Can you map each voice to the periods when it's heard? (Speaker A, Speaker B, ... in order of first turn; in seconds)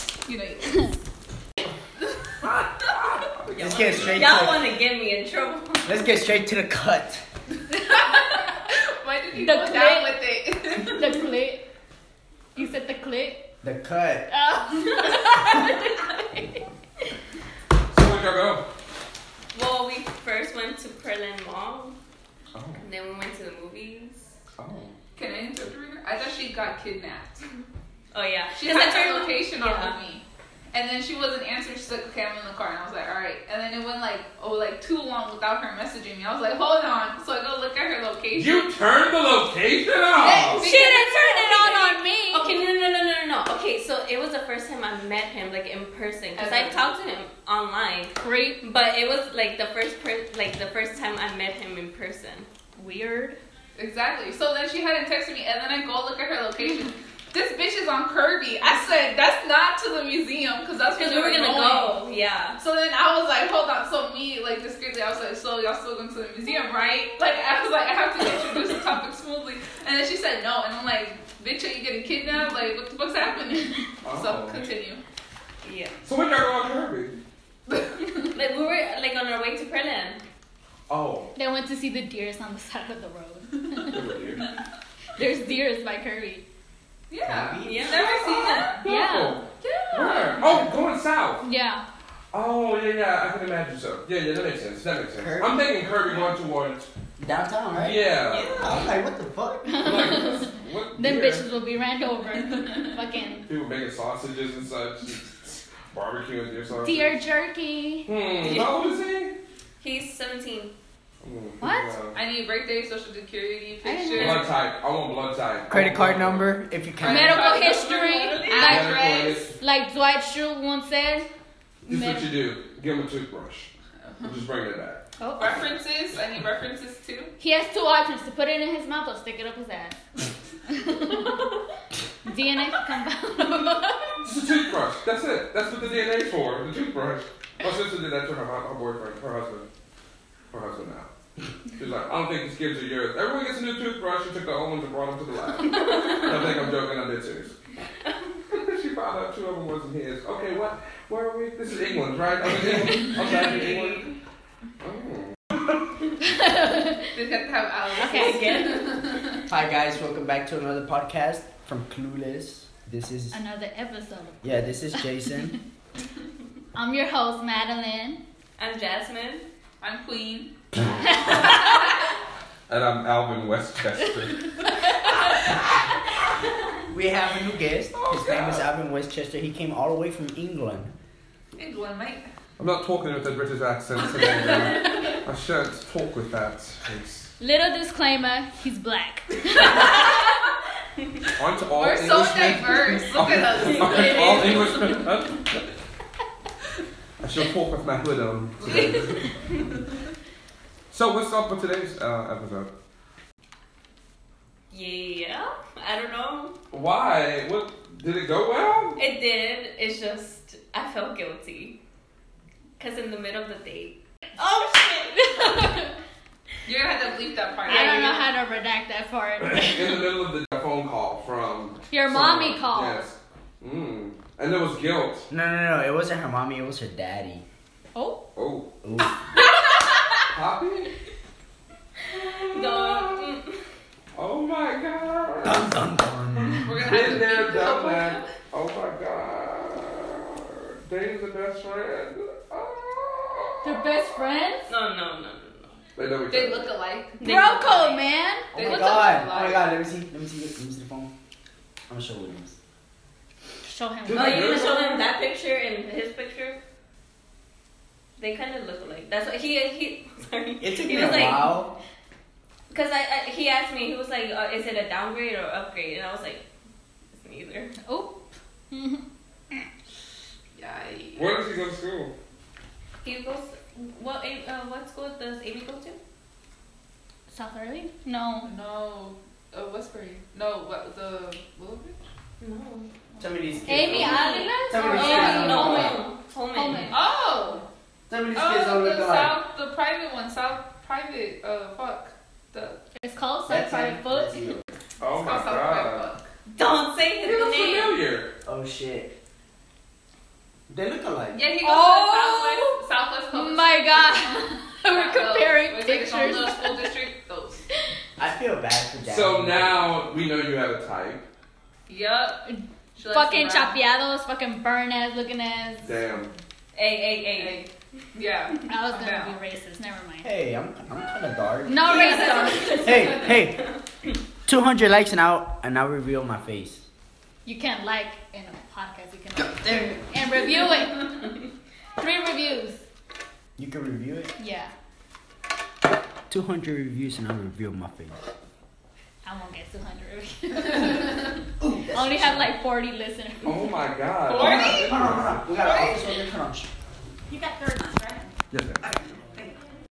Speaker A: 0.3-0.7, 7.8-11.3, 25.2-27.4, 28.5-38.8, 40.1-41.9, 46.4-46.9, 53.8-62.0, 62.6-75.0, 77.7-78.2, 87.1-88.9, 90.1-90.5, 112.1-114.5, 117.0-119.5, 124.1-124.4, 125.3-127.3, 157.1-159.4, 169.8-170.6, 181.6-182.3, 191.7-194.6, 198.7-199.3, 216.7-218.4, 236.5-238.0, 246.3-248.0, 248.5-249.8, 270.6-271.6, 278.4-282.0, 286.9-287.6, 288.3-292.8, 295.1-296.3, 301.3-307.6, 311.9-313.8, 317.3-319.4, 344.2-346.1
Speaker B: 2.4-4.2, 17.9-18.7, 22.5-22.8, 24.6-24.9, 38.3-40.7, 74.0-74.7, 76.0-77.2, 80.9-81.3, 83.8-84.5, 88.8-91.5, 92.3-96.9, 97.8-98.7, 99.8-101.5, 103.5-107.3, 108.0-109.4, 111.2-112.2, 114.1-116.5, 118.5-119.6, 121.8-123.7, 124.2-125.0, 134.2-139.7, 140.5-141.1, 141.8-147.5, 148.5-154.1, 154.8-155.3, 172.7-174.7, 177.9-178.7, 182.6-187.3, 191.4-195.7, 197.2-199.2, 200.9-202.7, 206.7-209.0, 219.4-225.3, 228.3-228.7, 230.3-230.9, 232.3-233.3, 234.2-235.8, 236.5-244.2, 246.0-246.7, 254.0-255.0, 271.1-272.1, 295.0-296.1, 297.2-298.3, 309.1-311.3, 315.8-316.3, 343.4-345.6, 348.5-348.9
Speaker C: 3.4-6.0, 15.6-16.1, 19.5-22.0, 22.8-24.4, 28.1-30.0, 41.5-52.5, 60.9-62.6, 75.6-76.0, 78.3-80.2, 87.6-88.7, 98.3-98.7, 108.4-108.9, 109.8-110.7, 118.2-118.9, 145.9-146.3, 152.7-154.2, 157.9-159.0, 168.6-169.5, 204.7-206.6, 209.0-211.8, 212.8-215.7, 232.1-233.6, 244.7-245.8, 247.2-248.1, 254.1-256.6, 258.2-261.6, 262.7-266.4, 267.1-267.8, 273.0-276.0, 282.4-282.9, 284.0-287.0, 296.5-298.0, 316.7-317.7, 321.8-323.6
Speaker D: 3.6-4.7, 5.8-7.2, 13.6-14.3, 87.3-88.0, 95.2-95.8, 97.2-100.0, 115.7-117.5, 159.5-163.4, 164.4-165.6, 176.9-180.9, 225.3-227.4, 228.8-229.2, 235.4-236.8, 248.5-251.1, 251.9-252.6, 260.6-261.8, 283.2-286.1, 288.1-289.4, 293.5-294.7, 298.4-299.1, 300.7-301.4, 308.2-309.9, 320.2-321.9, 322.7-323.8, 324.4-326.9, 329.4-330.1, 333.6-334.4, 336.3-338.1, 341.6-342.6, 344.3-346.7
Speaker E: 9.3-10.2, 10.9-11.7, 12.5-13.5, 14.3-16.1, 40.6-42.5, 48.2-48.6, 52.8-53.4, 81.3-84.4, 85.2-86.5, 88.5-90.1, 91.4-91.8, 99.6-103.5, 106.8-108.1, 111.6-112.0, 113.8-114.5, 117.0-118.9, 119.6-121.3, 121.8-122.3, 125.2-125.5, 127.4-130.0, 130.7-131.5, 132.2-134.3, 156.2-157.2, 158.0-158.8, 163.3-165.6, 166.7-168.2, 184.2-185.2, 187.4-190.2, 194.2-194.6, 214.4-215.9, 217.7-220.0, 221.9-223.1, 227.9-228.3, 243.6-244.7, 247.2-249.1, 253.7-255.1, 267.8-269.0, 277.3-278.5, 283.7-286.0, 286.6-287.0, 293.0-294.6, 301.6-302.7, 303.3-307.0, 313.1-315.9, 318.7-320.3, 321.7-323.4, 327.5-331.4, 332.0-332.9, 334.4-334.7, 339.2-341.4, 341.9-343.8, 347.3-348.1